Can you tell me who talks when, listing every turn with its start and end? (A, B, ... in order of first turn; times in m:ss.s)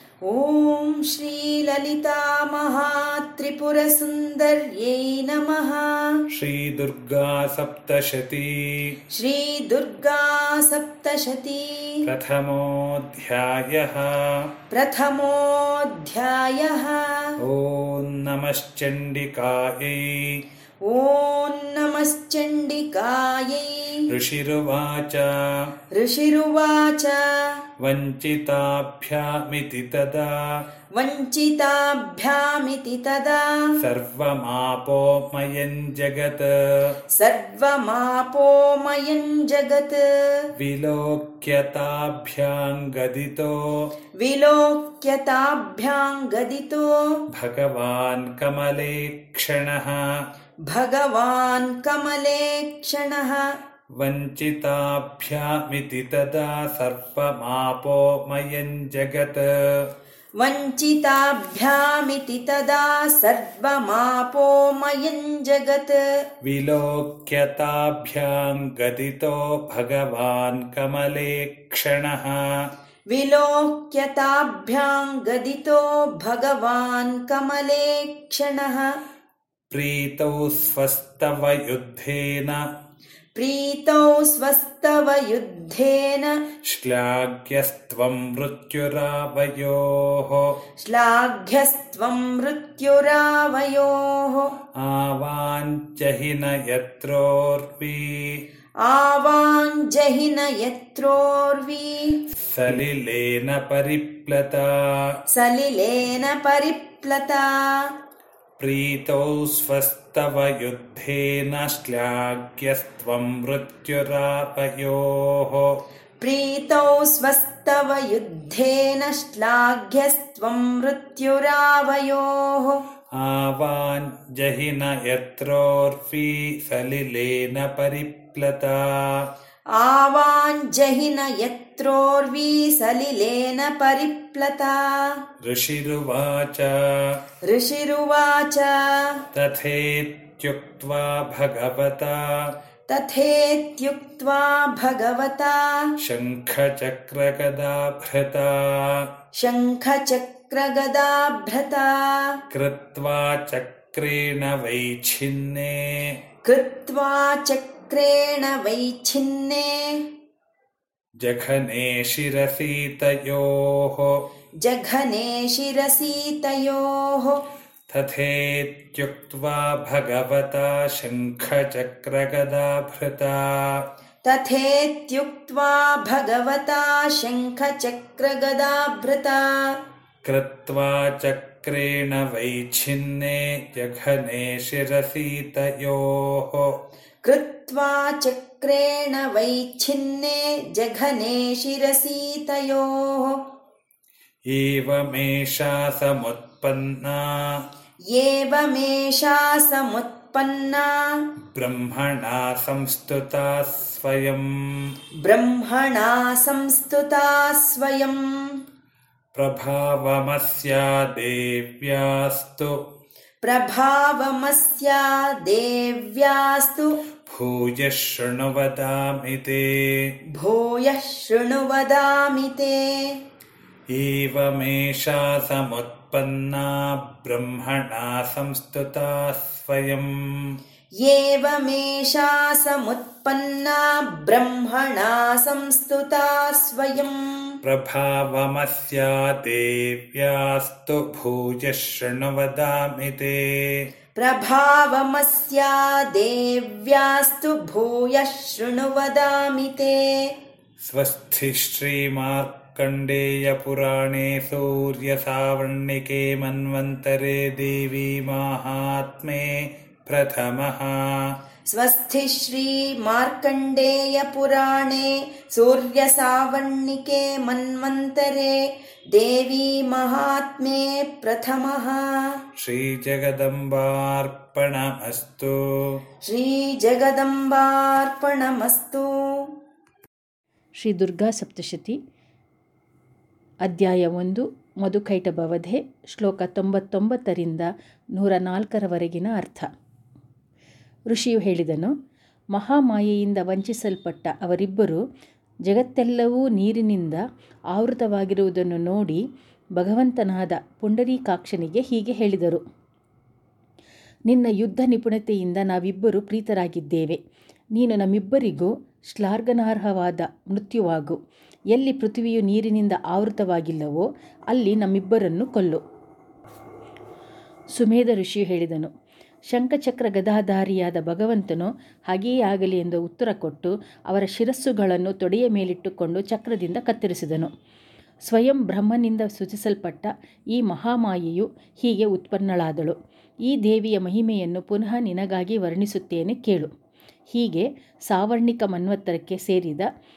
0:00.2-0:06.2 A
0:06.3-0:09.0 B
0:09.1-0:12.0 A
0:12.0-0:14.3 B
0:14.7-0:17.3 A
0:17.4-0:20.4 B
0:20.8-0:24.1 A
0:24.1-0:25.4 B
0:25.9-0:27.6 A
0:27.8-0:30.4 B
0:30.9-0:33.7 A
0:33.8-0:36.9 B
0:37.1-0:40.5 A
0:40.6-0:43.6 B
0:44.2-0:47.2 A
0:47.3-0:50.1 B
0:50.7-0:53.6 A
0:54.0-0:59.5 B
1:00.4-1:06.2 A
1:06.4-1:12.5 B
1:13.1-1:19.0 A
1:19.7-1:22.7 B
1:23.4-1:26.4 A
1:26.7-1:30.5 B
1:30.8-1:34.6 A
1:34.8-1:38.4 B
1:38.8-1:42.2 A
1:42.4-1:45.0 B
1:45.3-1:48.0 A
1:48.6-1:55.7 B
1:56.2-2:02.8 A
2:03.1-2:09.3 B
2:09.7-2:15.2 A
2:15.4-2:16.9 B
2:17.5-2:19.2 A
2:19.3-2:22.3 B
2:22.9-2:25.9 A
2:26.0-2:29.1 B
2:29.4-2:32.4 A
2:32.5-2:36.2 B
2:36.4-2:40.1 A
2:41.2-2:44.1 B
2:44.6-2:47.5 A
2:47.9-2:53.8 B
2:54.2-2:59.8 A
3:00.2-3:06.7 B
3:07.2-3:13.4 A
3:14.5-3:17.6 B
3:18.1-3:21.3 A
3:21.5-3:24.5 B
3:25.2-3:28.6 A
3:29.3-3:32.8 B
3:33.4-3:37.0 A
3:37.3-3:39.9 B
3:40.4-3:43.2 A
3:43.9-3:50.1 B
3:51.0-3:57.6 A
3:57.6-4:03.9 B
4:04.2-4:10.3 A
4:10.8-4:21.1 B
4:21.7-4:32.4 A
4:32.6-4:36.0 B
4:36.2-4:39.6 A
4:40.8-4:42.0 C
4:43.7-4:49.7 C
4:51.1-4:51.9 C
4:52.6-4:55.0 C
4:55.7-4:57.2 C
4:57.7-4:59.2 C
4:59.8-5:02.6 C
5:04.3-5:07.2 C
5:07.8-5:11.2 C
5:11.7-5:15.8 C
5:17.8-5:18.9 C
5:19.5-5:27.5 C
5:28.2-5:36.7 C
5:37.3-5:39.9 C